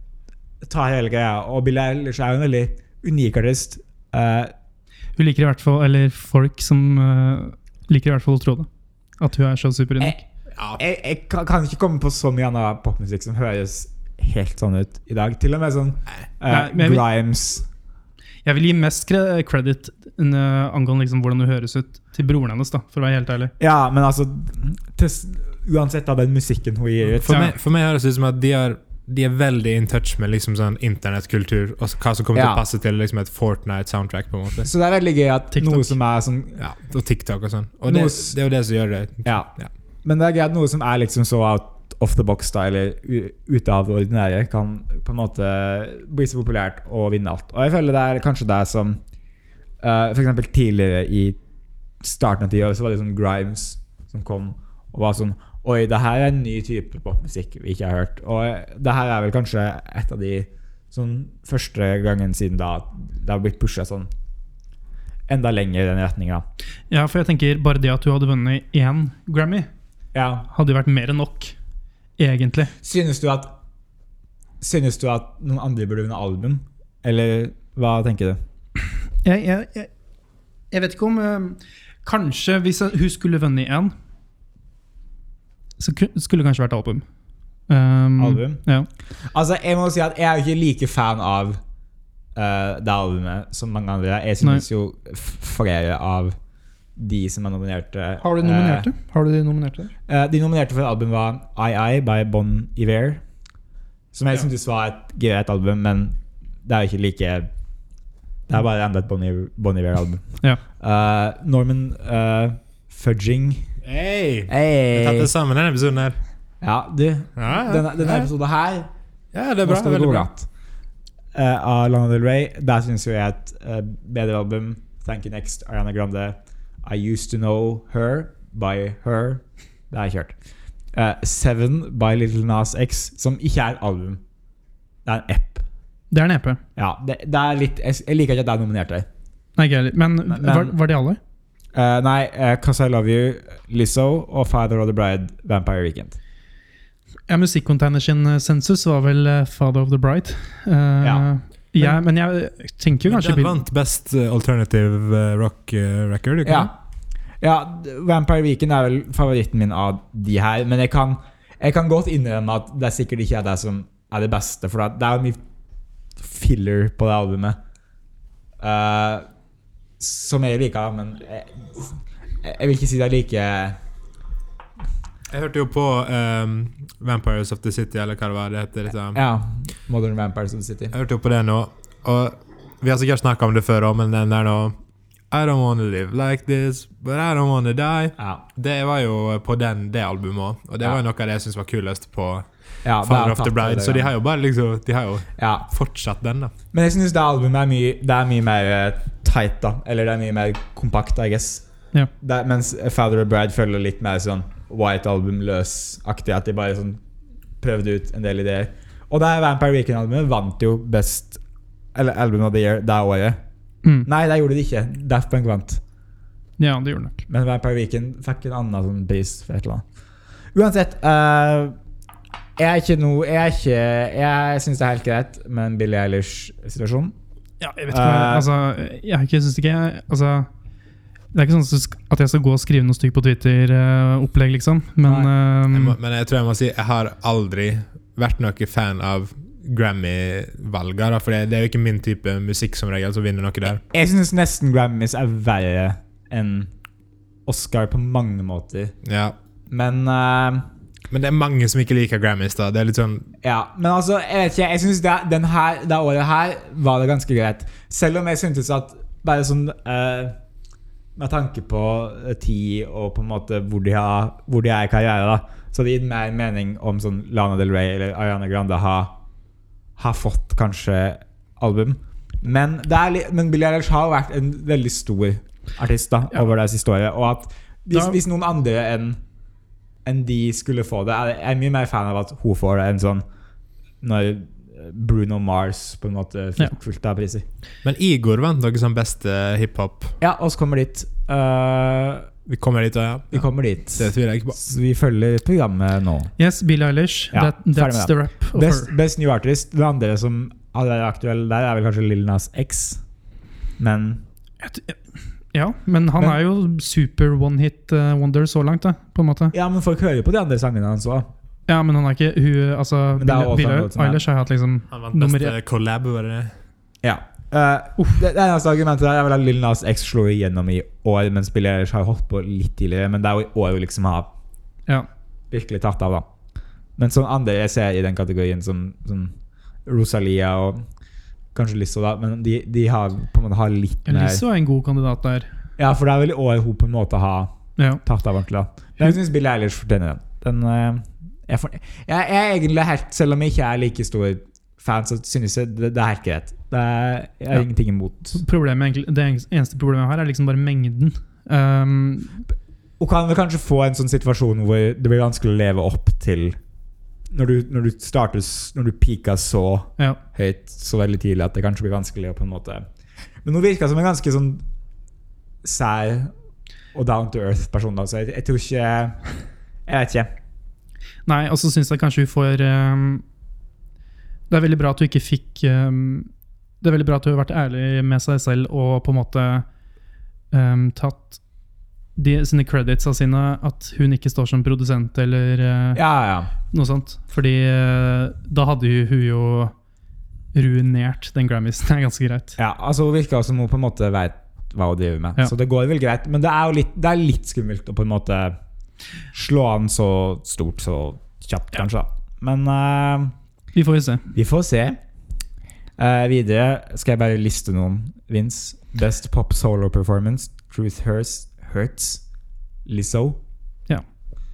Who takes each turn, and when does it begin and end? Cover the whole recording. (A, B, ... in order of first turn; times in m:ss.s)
0:00.6-0:04.5 A
0:05.2-0:08.7 B
0:09.2-0:10.2 B
0:10.8-0:17.7 A
0:16.5-0:17.0 B
0:18.4-0:23.5 B
0:23.6-0:27.6 A
0:27.2-0:34.7 C
0:32.3-0:32.6 A
0:34.6-0:36.6 A
0:35.6-0:36.0 B
0:36.6-0:39.7 C
0:37.9-0:38.4 A
0:39.2-0:49.0 A
0:49.8-0:51.4 A
0:52.0-1:04.1 A
1:05.3-1:06.4 A
1:06.9-1:09.7 B
1:10.2-1:10.5 A
1:10.5-1:11.5 B
1:12.2-1:12.7 B
1:12.8-1:13.5 A
1:14.6-1:18.4 A
1:19.2-1:19.9 B
1:20.7-1:23.9 B
1:25.8-1:27.0 B
1:27.7-1:28.9 B
1:28.2-1:28.6 A
1:29.3-1:31.6 A
1:32.4-1:36.4 A
1:37.0-1:38.9 A
1:38.2-1:39.9 B
1:40.1-1:43.2 A
1:44.1-1:47.5 A
1:48.5-1:50.2 A
1:50.8-1:53.7 A
1:53.8-1:56.2 C
1:54.5-1:55.3 A
1:56.6-1:58.9 A
1:57.4-1:58.3 C
1:59.3-2:00.3 C
1:59.6-2:00.5 A
2:01.4-2:10.4 A
2:10.9-2:14.2 A
2:15.1-2:15.6 A
2:16.1-2:16.6 B
2:16.8-2:19.1 A
2:19.6-2:21.2 B
2:20.3-2:20.8 A
2:21.8-2:26.2 A
2:27.3-2:33.6 B
2:31.0-2:31.3 A
2:33.1-2:36.7 C
2:36.4-2:36.8 A
2:37.4-2:45.4 A
2:46.2-2:47.6 A
2:48.6-2:49.3 A
2:50.0-2:51.9 A
2:52.4-2:53.8 A
2:55.3-2:59.2 C
2:59.1-3:00.9 A
3:00.9-3:04.8 C
3:05.3-3:12.5 C
3:08.2-3:08.4 A
3:12.8-3:14.1 A
3:13.0-3:16.5 C
3:15.4-3:15.7 A
3:16.7-3:21.6 A
3:22.2-3:27.0 A
3:27.6-3:31.4 A
3:32.0-3:33.4 A
3:34.0-3:35.8 A
3:36.6-3:37.2 B
3:37.3-3:39.8 A
3:40.5-3:41.8 A
3:42.6-3:47.2 A
3:47.6-3:50.5 B
3:47.9-3:48.5 A
3:51.3-3:56.0 B
3:55.7-4:03.8 C
4:03.9-4:06.7 A
4:07.5-4:09.0 A
4:09.0-4:09.4 C
4:09.7-4:10.7 A
4:11.1-4:13.3 C
4:13.4-4:20.4 A
4:21.2-4:29.2 A
4:30.0-4:39.2 A
4:40.0-4:43.2 A
4:44.0-4:47.4 A
4:47.8-4:50.2 C
4:50.2-4:52.3 A
4:52.5-4:54.6 C
4:53.3-4:56.3 A
4:56.4-4:58.9 B
4:57.3-5:03.0 A
5:03.8-5:04.2 A
5:04.6-5:05.0 B
5:05.5-5:09.5 B
5:09.5-5:11.3 A
5:11.7-5:15.6 B
5:13.2-5:14.2 A
5:14.9-5:16.5 C
5:17.0-5:24.3 A
5:25.5-5:26.3 A
5:27.0-5:29.4 A
5:29.9-5:30.8 A
5:31.5-5:34.4 A
5:34.1-5:35.5 B
5:35.8-5:48.4 A
5:37.8-5:38.0 B
5:48.3-5:52.4 B
5:53.0-5:56.6 A
5:57.3-6:02.9 A
6:03.4-6:04.6 A
6:05.6-6:06.3 A
6:06.9-6:09.3 A
6:09.9-6:10.3 A
6:11.3-6:13.2 B
6:14.5-6:16.3 B
6:16.8-6:19.7 B
6:20.5-6:21.4 B
6:22.2-6:26.0 B
6:26.0-6:26.5 A
6:26.7-6:29.7 B
6:30.5-6:32.6 B
6:32.6-6:38.6 A
6:39.3-6:43.3 A
6:43.7-6:44.3 B
6:44.3-6:45.0 A
6:46.0-6:52.2 A
6:52.9-6:53.4 A